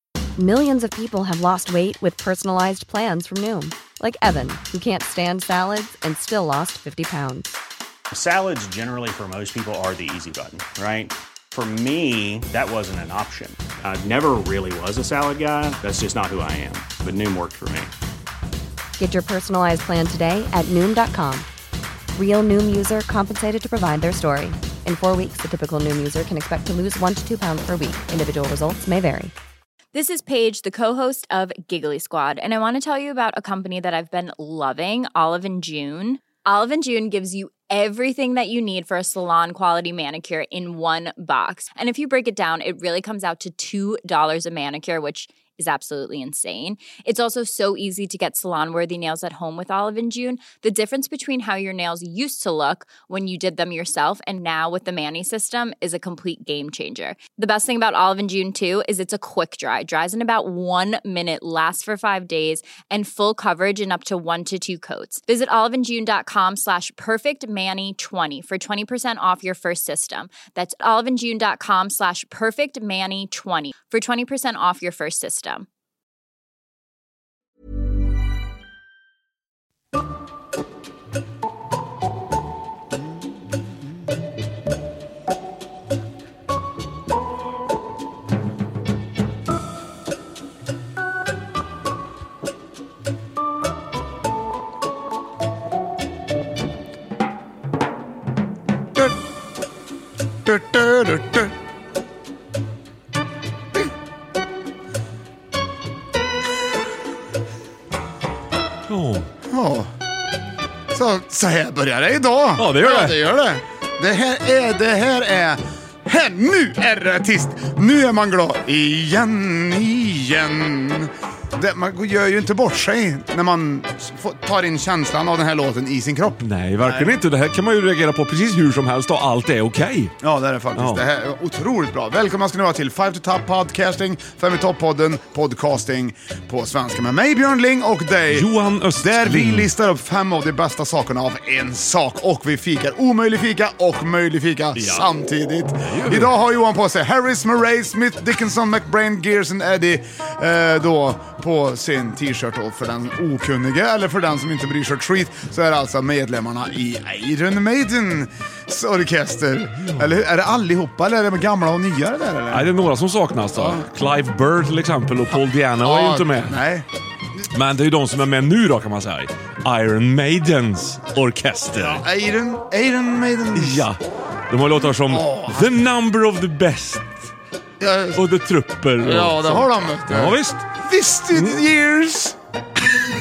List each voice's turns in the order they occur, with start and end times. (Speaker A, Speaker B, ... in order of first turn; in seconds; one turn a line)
Speaker A: 0.4-7.6
Speaker B: 8.1-17.9
Speaker A: 19.0-21.5
Speaker A: 22.1-29.3
Speaker C: 29.9-75.7
Speaker D: 100.5-101.5
Speaker E: 108.9-109.3
Speaker D: 109.5-109.9
Speaker D: 110.9-127.2
Speaker E: 112.6-113.3
Speaker E: 126.4-130.1
Speaker D: 130.2-162.7
Speaker E: 130.8-131.1
Speaker E: 138.3-139.7
Speaker E: 144.8-145.1
Speaker E: 145.8-146.3
Speaker E: 159.8-160.1
Speaker E: 162.5-166.6
Speaker D: 163.6-163.8
Speaker D: 165.8-166.9
Speaker E: 167.5-172.0
Speaker D: 171.7-173.9
Speaker E: 173.6-177.3
Speaker D: 175.1-175.8
Speaker D: 177.8-178.2
Speaker E: 178.2-180.7
Speaker D: 179.0-182.4
Speaker E: 181.3-181.6